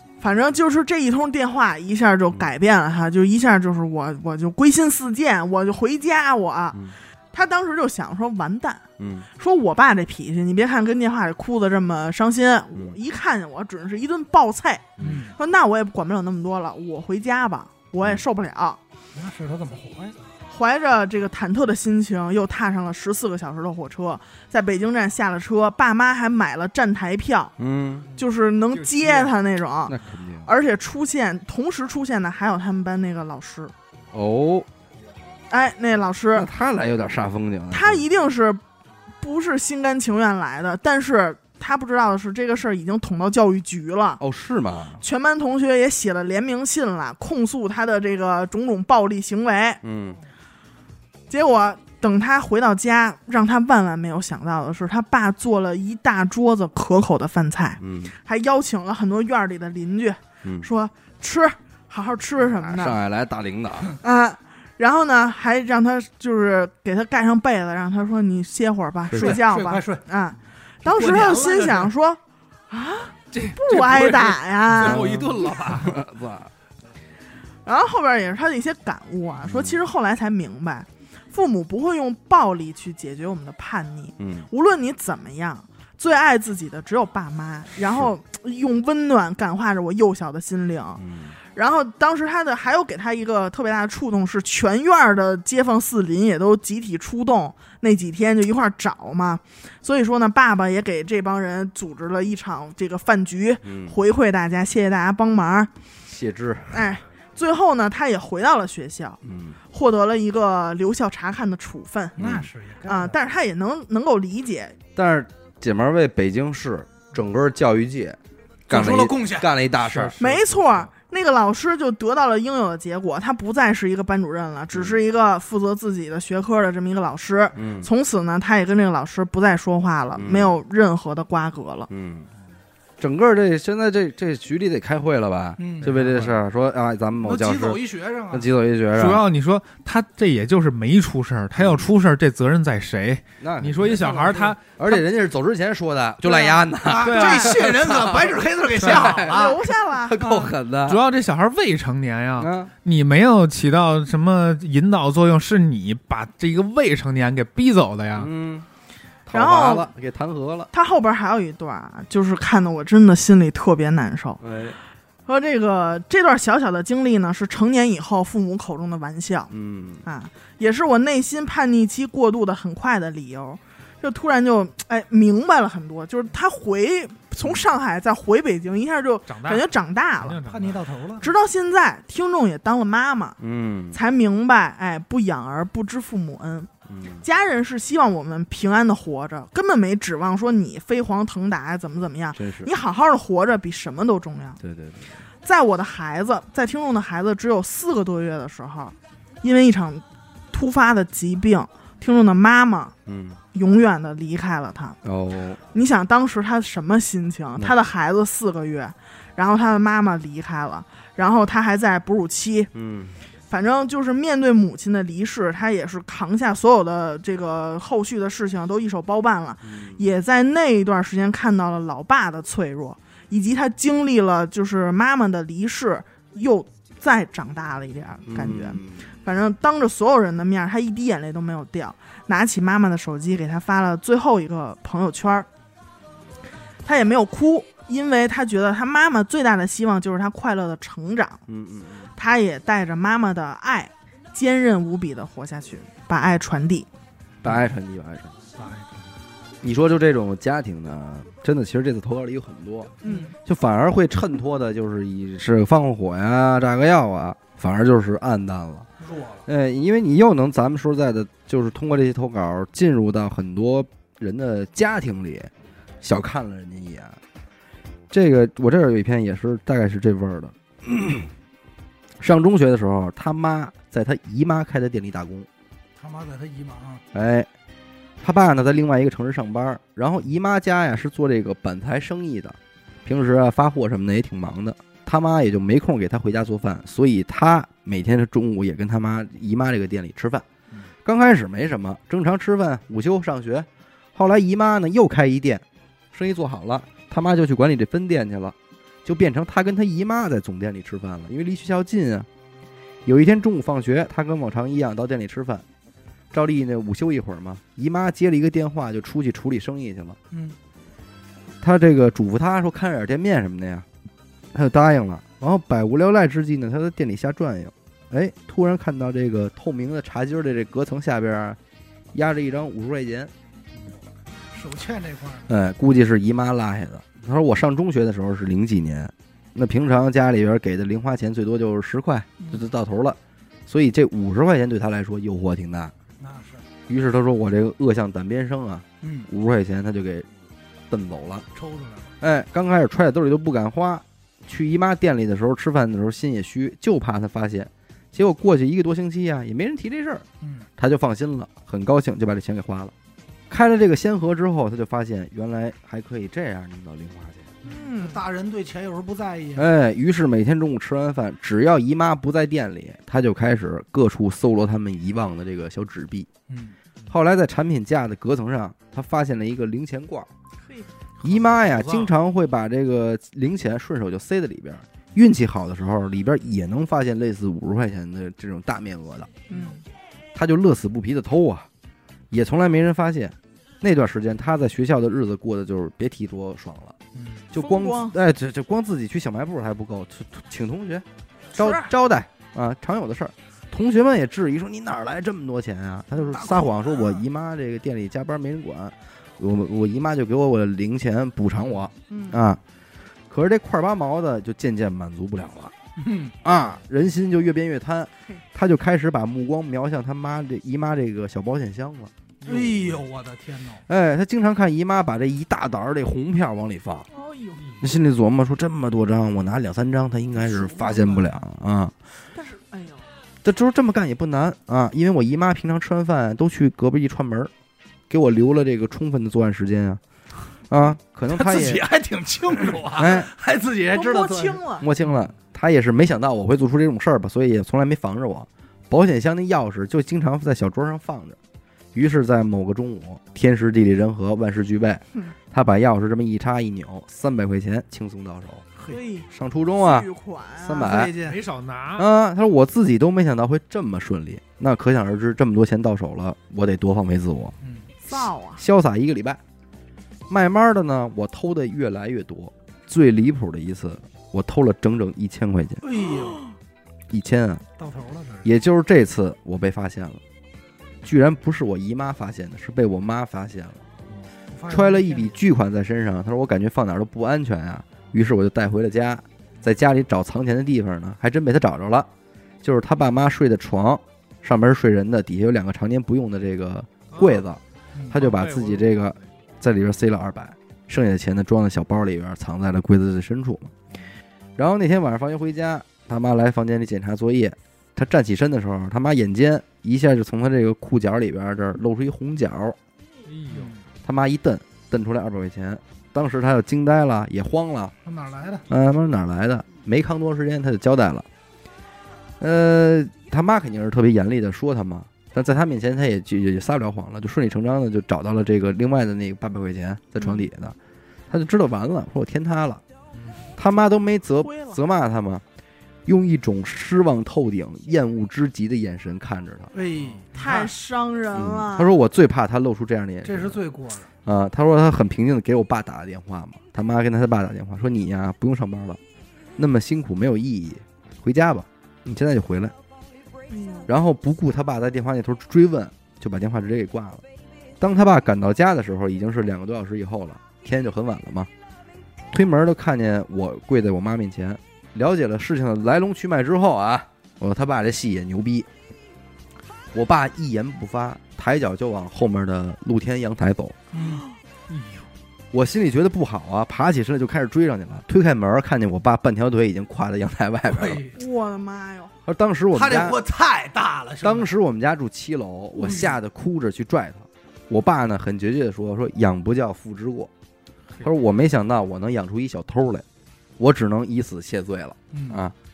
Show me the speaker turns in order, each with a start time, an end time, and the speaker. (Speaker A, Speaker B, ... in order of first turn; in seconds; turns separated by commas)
Speaker A: 0.2-8.8, Speaker B: 9.0-9.3, Speaker A: 9.4-18.8, Speaker B: 15.0-15.3, Speaker C: 15.0-15.3, Speaker C: 19.1-20.2, Speaker A: 20.5-27.5, Speaker B: 27.6-28.1, Speaker A: 28.2-33.7, Speaker D: 28.7-29.3, Speaker B: 29.9-30.5, Speaker B: 34.1-34.7, Speaker A: 35.5-36.5, Speaker B: 36.4-38.0, Speaker A: 37.7-38.6, Speaker A: 39.2-44.2, Speaker B: 44.2-45.0, Speaker A: 45.0-49.8, Speaker B: 49.8-50.2, Speaker A: 51.3-63.0, Speaker B: 57.8-58.1, Speaker B: 60.4-60.7, Speaker B: 62.5-64.0, Speaker A: 64.0-75.2, Speaker B: 69.1-69.4, Speaker C: 69.1-70.0, Speaker C: 70.8-71.9, Speaker D: 73.3-76.0, Speaker B: 74.8-76.5, Speaker A: 77.7-91.0, Speaker B: 79.5-79.8, Speaker B: 84.2-84.5, Speaker B: 91.0-91.3, Speaker A: 91.5-105.7, Speaker B: 103.6-104.0, Speaker B: 106.1-106.9, Speaker A: 106.7-112.2, Speaker B: 109.2-109.6, Speaker C: 112.2-113.2, Speaker B: 112.2-112.5, Speaker A: 112.9-114.8, Speaker B: 115.0-120.2, Speaker C: 118.7-119.5, Speaker D: 119.8-120.9, Speaker A: 120.2-131.9, Speaker B: 124.7-125.0, Speaker B: 127.5-127.9, Speaker B: 130.2-130.6, Speaker B: 131.9-132.3, Speaker B: 133.0-139.2, Speaker C: 135.6-136.4, Speaker C: 137.2-138.5, Speaker D: 138.9-145.0, Speaker B: 141.6-141.9, Speaker B: 143.4-144.2, Speaker C: 143.9-144.6, Speaker B: 144.8-151.0, Speaker C: 146.8-149.6, Speaker D: 147.0-147.7, Speaker D: 148.8-149.2, Speaker A: 149.3-150.4, Speaker D: 150.9-158.3, Speaker B: 152.4-152.7, Speaker B: 158.2-158.7, Speaker B: 159.3-160.7, Speaker A: 159.3-159.9, Speaker A: 160.7-164.4, Speaker B: 164.4-164.8, Speaker A: 165.3-169.5, Speaker B: 169.5-170.1, Speaker A: 170.1-180.4, Speaker D: 179.3-179.7, Speaker D: 180.2-180.9, Speaker C: 180.5-181.3, Speaker A: 181.2-183.4, Speaker B: 183.4-184.0, Speaker A: 183.9-186.7, Speaker B: 186.9-187.2, Speaker A: 187.2-194.6, Speaker B: 192.3-192.7, Speaker B: 194.6-195.0, Speaker A: 195.4-202.9, Speaker B: 203.1-203.4, Speaker A: 203.5-205.0, Speaker B: 205.0-205.6, Speaker A: 205.7-212.7, Speaker B: 212.7-213.2, Speaker A: 213.5-235.5, Speaker B: 219.6-220.0, Speaker B: 228.3-229.0, Speaker A: 236.8-241.4, Speaker B: 241.5-242.1, Speaker A: 242.2-246.9, Speaker B: 247.4-248.4, Speaker C: 248.6-249.2, Speaker B: 249.6-258.9, Speaker A: 253.0-253.3, Speaker C: 253.0-253.3, Speaker C: 259.0-259.4, Speaker B: 259.5-265.5, Speaker B: 266.0-267.2, Speaker B: 268.1-271.3, Speaker B: 272.2-275.5, Speaker C: 276.0-277.0, Speaker B: 277.1-277.5, Speaker B: 278.2-290.4, Speaker B: 291.1-302.3, Speaker B: 303.1-305.6, Speaker B: 306.3-310.2, Speaker C: 310.3-310.6, Speaker B: 311.6-313.9, Speaker B: 314.5-321.6, Speaker B: 322.1-323.3, Speaker C: 324.5-325.5, Speaker B: 325.5-335.9, Speaker C: 336.2-336.7, Speaker B: 336.9-340.3, Speaker C: 339.0-339.3, Speaker B: 340.9-341.5, Speaker C: 341.5-342.1, Speaker B: 342.2-350.3, Speaker C: 350.4-350.7, Speaker B: 350.8-352.9, Speaker B: 353.5-357.5, Speaker A: 357.6-358.2, Speaker C: 357.6-359.7, Speaker B: 359.6-366.3, Speaker C: 366.5-366.8, Speaker B: 367.1-370.3, Speaker C: 371.2-372.1, Speaker B: 371.2-379.3, Speaker A: 379.5-379.8, Speaker B: 380.4-381.7, Speaker B: 382.3-387.0, Speaker C: 387.1-387.5, Speaker B: 387.5-402.6, Speaker A: 387.6-388.2, Speaker A: 391.5-391.9, Speaker C: 396.2-397.2, Speaker A: 402.1-402.4, Speaker B: 403.3-405.7, Speaker C: 406.0-406.4, Speaker B: 406.4-412.1, Speaker D: 412.4-412.9, Speaker C: 412.4-413.8, Speaker B: 413.9-417.1, Speaker A: 417.1-417.9, Speaker B: 417.8-421.9, Speaker C: 420.4-421.4, Speaker A: 422.3-423.1, Speaker B: 423.4-427.5, Speaker B: 428.1-430.0, Speaker B: 430.7-431.9, Speaker C: 431.3-434.6, Speaker B: 432.9-433.3, Speaker A: 433.9-434.9, Speaker B: 434.8-441.4, Speaker B: 441.9-448.7, Speaker A: 448.9-450.9, Speaker B: 449.3-450.1, Speaker B: 450.6-451.1, Speaker C: 450.8-451.4, Speaker D: 451.2-452.1, Speaker B: 452.0-457.6, Speaker C: 457.6-457.9, Speaker A: 458.1-458.6, Speaker B: 458.2-459.4, Speaker B: 460.3-465.8, Speaker C: 465.8-466.4, Speaker B: 467.1-467.6, Speaker C: 467.8-468.5, Speaker B: 468.4-470.2, Speaker B: 471.0-473.8, Speaker C: 474.5-475.4, Speaker B: 474.7-482.1, Speaker B: 482.6-493.7, Speaker D: 487.1-487.4, Speaker D: 488.1-489.1, Speaker B: 494.6-502.8, Speaker D: 503.3-503.8, Speaker C: 503.5-503.8, Speaker B: 504.0-507.9, Speaker C: 508.1-508.7, Speaker B: 508.7-511.3, Speaker B: 512.4-520.8, Speaker A: 520.2-520.5, Speaker B: 521.3-522.8, Speaker B: 523.6-525.4, Speaker A: 524.4-524.8, Speaker B: 526.1-529.7, Speaker C: 529.7-530.7, Speaker A: 530.3-532.0, Speaker B: 531.3-533.6, Speaker C: 533.2-534.1, Speaker B: 534.2-539.0, Speaker B: 539.6-542.8, Speaker A: 543.5-543.9, Speaker B: 543.9-547.2, Speaker B: 547.8-551.5, Speaker B: 552.3-558.7, Speaker B: 559.9-563.8, Speaker C: 563.9-564.3, Speaker D: 564.7-565.1, Speaker B: 565.5-571.0, Speaker C: 570.7-571.2, Speaker A: 571.1-572.1, Speaker B: 572.2-573.2, Speaker C: 572.7-574.5, Speaker B: 574.2-580.3, Speaker C: 575.8-576.1, Speaker B: 581.0-583.1, Speaker B: 583.6-585.5, Speaker C: 585.1-585.4